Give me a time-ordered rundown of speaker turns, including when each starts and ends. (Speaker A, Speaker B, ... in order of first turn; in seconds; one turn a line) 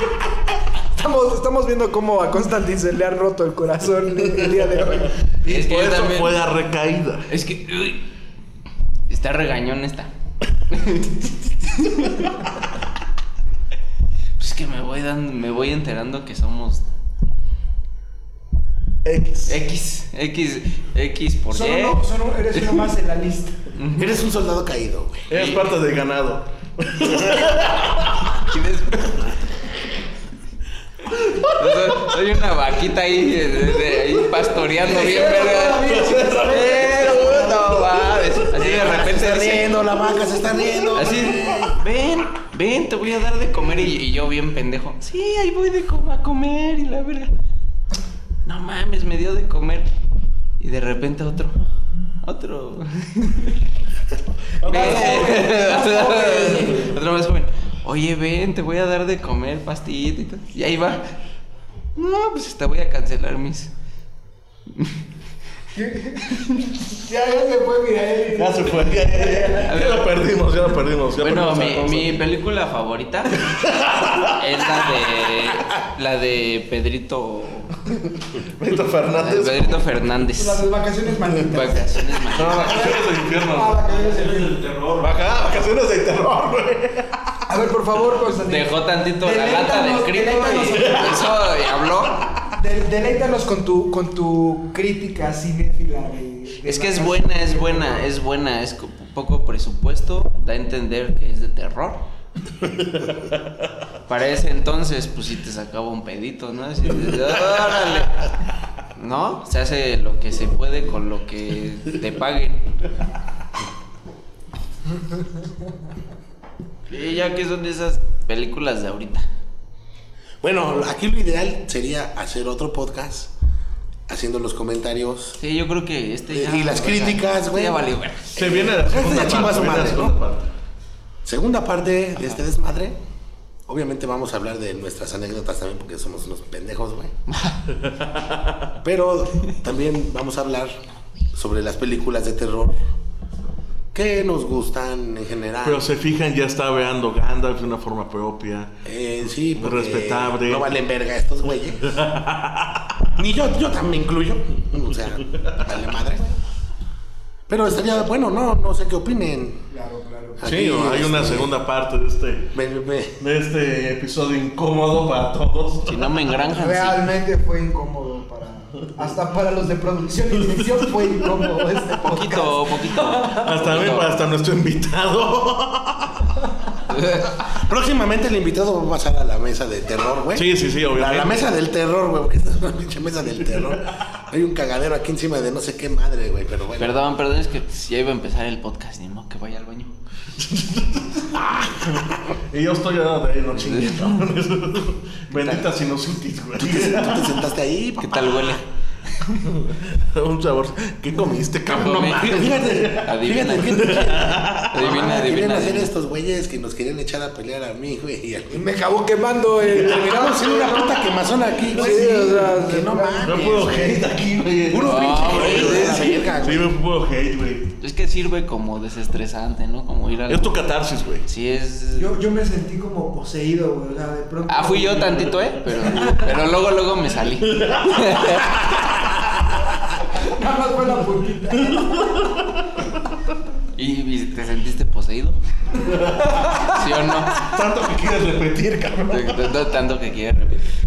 Speaker A: 0.9-5.5
Speaker B: 5.5-6.4
Speaker C: 5.5-7.3
Speaker B: 7.3-8.0
Speaker B: 9.1-10.1
Speaker B: 10.7-12.3
Speaker B: 14.4-16.9
Speaker C: 19.0-19.6
Speaker B: 19.5-22.0
Speaker A: 21.5-23.6
Speaker B: 22.5-22.9
Speaker B: 23.8-24.2
Speaker D: 23.9-25.3
Speaker C: 25.3-28.3
Speaker B: 25.3-25.7
Speaker B: 28.4-29.3
Speaker C: 31.3-32.2
Speaker B: 31.4-39.7
Speaker A: 34.7-38.2
Speaker C: 35.9-37.4
Speaker D: 38.5-41.7
Speaker B: 40.9-47.3
Speaker C: 41.2-41.7
Speaker B: 48.5-49.9
Speaker B: 50.6-51.6
Speaker B: 52.2-53.6
Speaker A: 54.6-57.0
Speaker C: 54.6-55.4
Speaker B: 54.6-61.1
Speaker B: 62.0-63.7
Speaker B: 64.7-65.0
Speaker A: 65.7-69.8
Speaker B: 66.4-66.7
Speaker C: 68.3-72.2
Speaker B: 69.6-70.1
Speaker B: 71.2-77.8
Speaker C: 73.3-74.4
Speaker C: 78.4-79.9
Speaker B: 79.2-80.6
Speaker A: 80.4-84.7
Speaker B: 81.5-82.8
Speaker C: 82.3-83.8
Speaker C: 85.0-87.2
Speaker A: 87.5-91.2
Speaker B: 88.4-92.3
Speaker C: 90.7-92.5
Speaker A: 92.5-98.1
Speaker B: 96.6-102.0
Speaker B: 104.1-108.2
Speaker C: 107.1-108.0
Speaker B: 109.0-112.6
Speaker B: 116.9-119.3
Speaker D: 120.4-123.3
Speaker D: 124.1-125.4
Speaker B: 125.4-128.4
Speaker D: 126.3-127.8
Speaker D: 128.4-130.2
Speaker C: 128.4-130.5
Speaker D: 131.2-133.0
Speaker D: 133.7-137.1
Speaker B: 137.3-137.6
Speaker C: 137.8-138.7
Speaker D: 138.8-140.8
Speaker D: 141.3-142.8
Speaker D: 143.9-145.9
Speaker C: 145.6-148.7
Speaker D: 148.8-152.0
Speaker C: 149.6-150.7
Speaker C: 151.8-153.1
Speaker D: 153.2-156.4
Speaker C: 155.3-155.7
Speaker D: 157.5-159.6
Speaker A: 159.7-160.4
Speaker D: 160.4-161.5
Speaker C: 160.4-162.5
Speaker D: 162.5-163.2
Speaker C: 163.2-166.1
Speaker B: 165.9-167.0
Speaker A: 166.5-173.5
Speaker C: 170.4-171.2
Speaker B: 172.0-174.1
Speaker C: 173.3-176.3
Speaker B: 176.9-177.3
Speaker D: 177.4-187.0
Speaker C: 180.3-181.5
Speaker B: 186.8-189.9
Speaker C: 190.4-197.4
Speaker B: 193.6-194.2
Speaker B: 195.3-195.7
Speaker D: 196.6-198.6
Speaker B: 198.0-198.6
Speaker C: 199.3-204.8
Speaker B: 201.7-202.4
Speaker D: 202.2-208.7
Speaker B: 203.0-204.0
Speaker B: 204.7-205.9
Speaker A: 208.5-210.9
Speaker C: 209.7-210.9
Speaker D: 209.7-214.0
Speaker C: 211.7-212.4
Speaker A: 211.7-214.0
Speaker C: 213.2-217.7
Speaker D: 214.7-216.7
Speaker B: 214.8-216.3
Speaker B: 217.8-220.6
Speaker C: 220.3-221.2
Speaker B: 221.2-222.1
Speaker A: 221.9-226.5
Speaker B: 224.5-228.7
Speaker C: 227.4-228.6
Speaker A: 230.0-232.4
Speaker C: 231.7-232.3
Speaker B: 233.8-235.4
Speaker C: 235.8-236.7
Speaker A: 236.1-236.9
Speaker B: 236.7-237.4
Speaker C: 237.3-239.6
Speaker B: 239.1-240.7